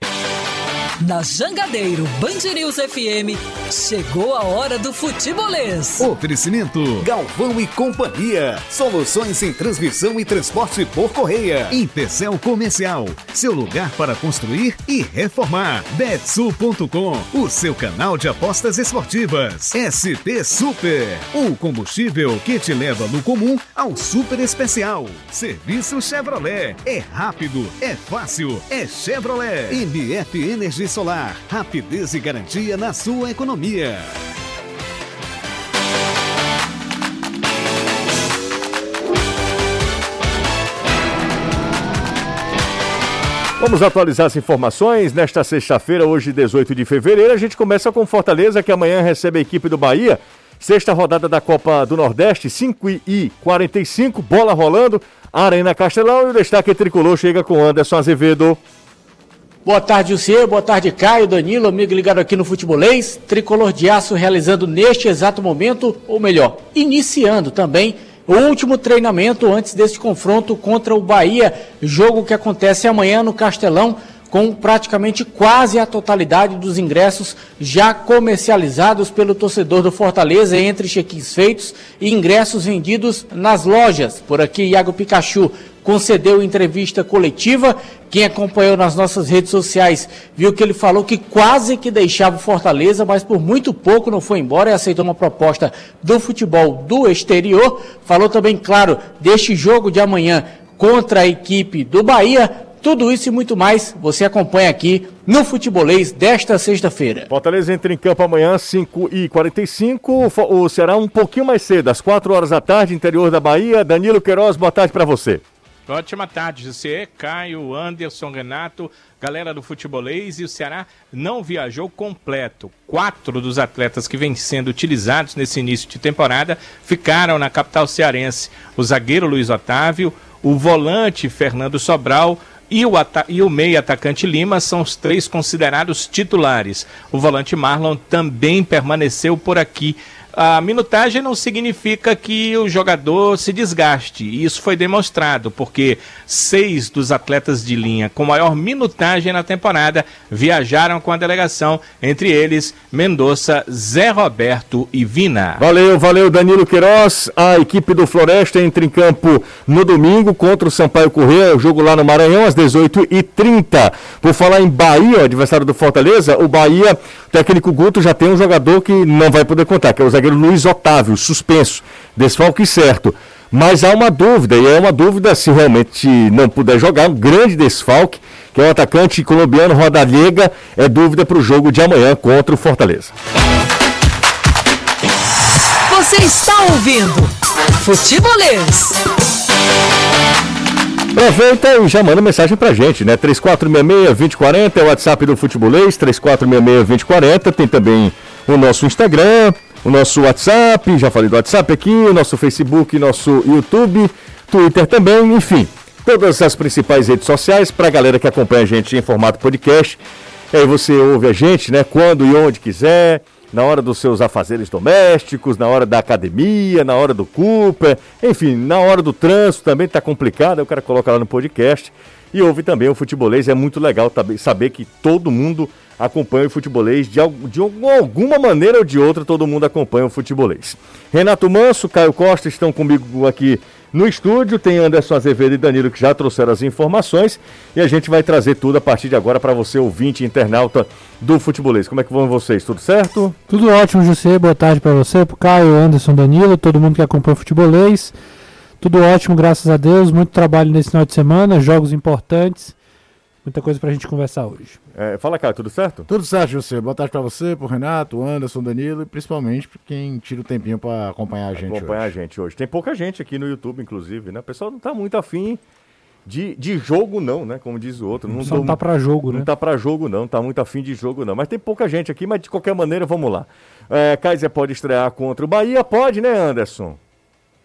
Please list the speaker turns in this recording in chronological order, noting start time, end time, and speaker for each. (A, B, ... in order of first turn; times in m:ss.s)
0:01.0-0:06.1 A
0:06.0-0:34.1 B
0:43.6-0:58.6 C
0:59.6-1:47.3 D
1:47.3-1:55.4 C
1:55.9-2:35.6 E
2:35.6-3:03.1 C
3:05.9-3:09.0 A
3:11.1-3:30.0 C
3:30.5-4:03.4 C
4:03.5-4:08.1 F
4:08.8-4:12.8 F
4:13.4-4:14.8 F
4:14.9-4:16.0 C
4:16.1-4:22.1 G
4:21.6-4:25.6 C
4:26.2-4:28.8 C
4:28.4-4:29.5 F
4:29.3-4:37.0 C